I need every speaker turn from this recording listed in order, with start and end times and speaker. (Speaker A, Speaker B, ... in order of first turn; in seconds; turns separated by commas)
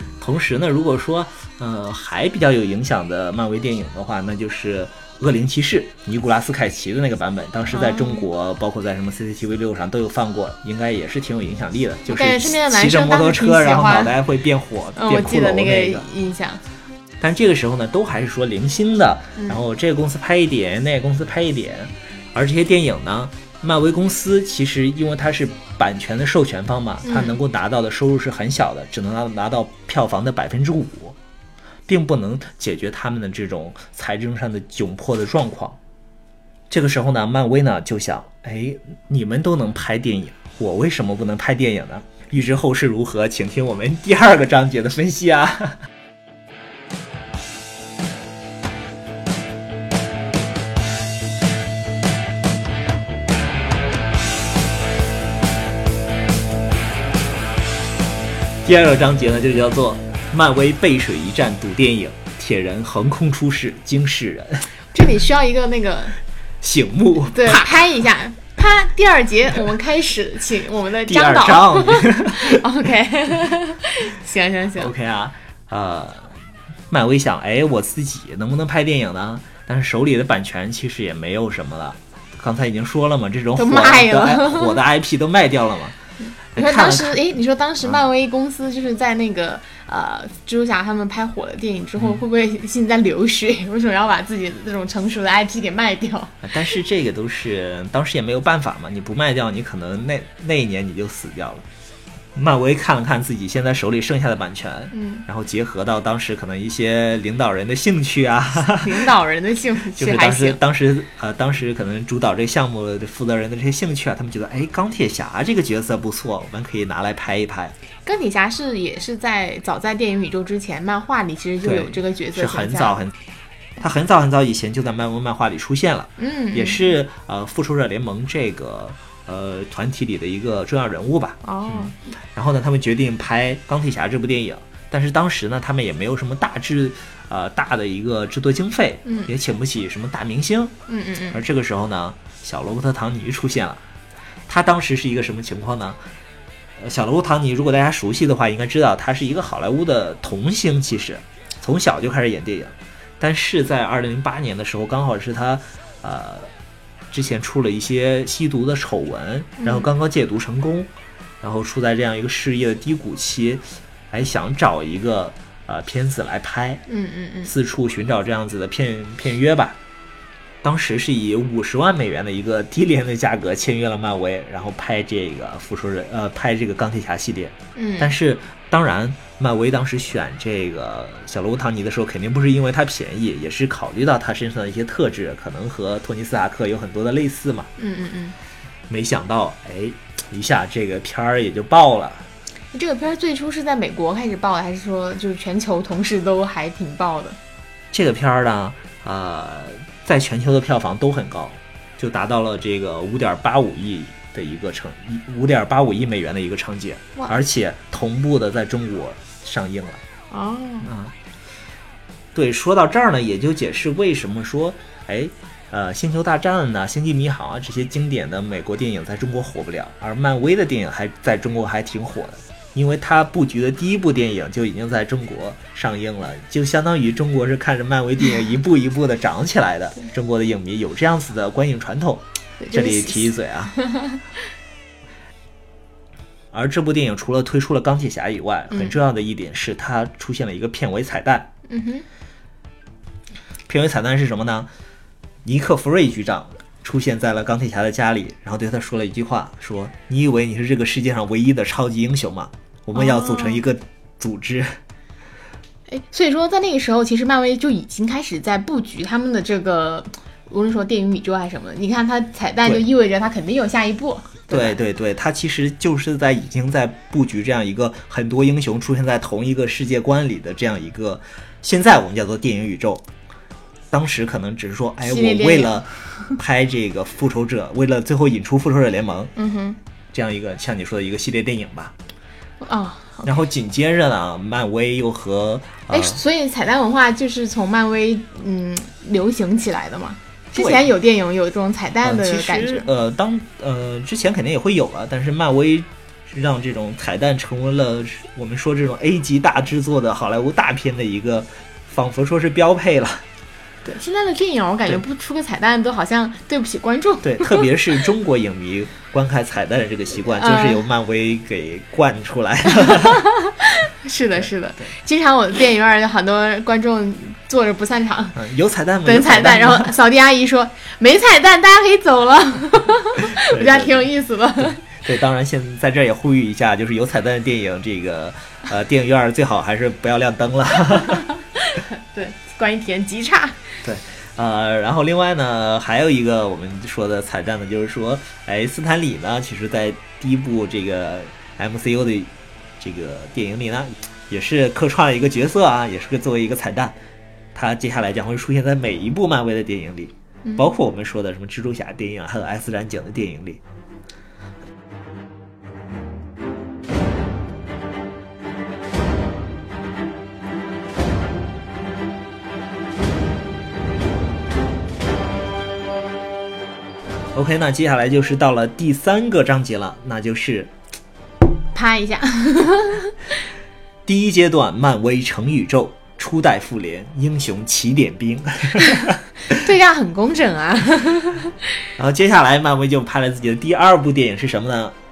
Speaker A: 0.2-16.1, Speaker B: 7.7-8.3, Speaker B: 12.1-14.1, Speaker B: 14.9-16.6, Speaker A: 17.2-31.1, Speaker B: 19.4-19.6, Speaker B: 27.0-27.4, Speaker A: 31.9-35.8, Speaker A: 36.7-45.8, Speaker A: 58.6-64.7, Speaker B: 64.9-66.2, Speaker A: 66.6-67.7, Speaker B: 67.3-74.9, Speaker A: 71.0-72.6, Speaker A: 74.8-76.3, Speaker A: 76.9-86.0, Speaker B: 83.5-84.8, Speaker B: 86.2-96.4, Speaker A: 86.5-87.2, Speaker A: 96.4-101.6, Speaker A: 102.3-109.1, Speaker B: 104.9-105.2, Speaker B: 108.7-110.6, Speaker A: 109.9-117.7, Speaker B: 118.0-123.0, Speaker A: 121.6-123.1, Speaker A: 123.8-140.7, Speaker B: 126.2-126.8, Speaker B: 131.4-131.9, Speaker B: 139.1-139.3, Speaker B: 140.9-141.4, Speaker A: 141.3-143.8, Speaker A: 144.5-146.0, Speaker A: 146.8-156.5, Speaker A: 157.1-160.9, Speaker B: 159.6-159.9, Speaker A: 161.4-166.8, Speaker B: 166.9-167.5, Speaker A: 167.4-169.8, Speaker A: 170.6-187.7, Speaker B: 177.8-178.1, Speaker B: 187.8-188.3, Speaker A: 188.9-192.3, Speaker B: 192.7-197.4, Speaker A: 197.9-210.0, Speaker B: 210.3-210.9, Speaker A: 210.8-211.1, Speaker A: 212.3-233.7, Speaker B: 232.6-234.2, Speaker A: 236.5-241.5, Speaker B: 241.7-242.0, Speaker A: 243.7-244.7, Speaker A: 245.4-254.7, Speaker B: 252.9-253.6, Speaker B: 255.9-264.8, Speaker A: 264.5-273.0, Speaker A: 273.9-279.3, Speaker B: 275.0-276.3, Speaker B: 279.4-279.8, Speaker A: 280.1-281.9, Speaker B: 282.6-283.3, Speaker A: 283.2-286.2, Speaker B: 285.9-292.9, Speaker A: 290.5-290.9, Speaker A: 292.0-303.2, Speaker B: 303.8-307.7, Speaker A: 307.2-313.2, Speaker B: 310.3-310.8, Speaker B: 312.7-318.4, Speaker A: 314.4-314.8, Speaker A: 318.3-319.9, Speaker B: 319.0-324.8, Speaker A: 323.3-324.1, Speaker A: 324.6-331.3, Speaker B: 330.9-333.7, Speaker A: 333.8-346.9, Speaker A: 347.5-353.6, Speaker B: 350.4-350.7, Speaker A: 367.3-370.7, Speaker B: 371.7-373.2, Speaker A: 374.1-379.2, Speaker B: 379.5-381.6, Speaker A: 382.0-384.9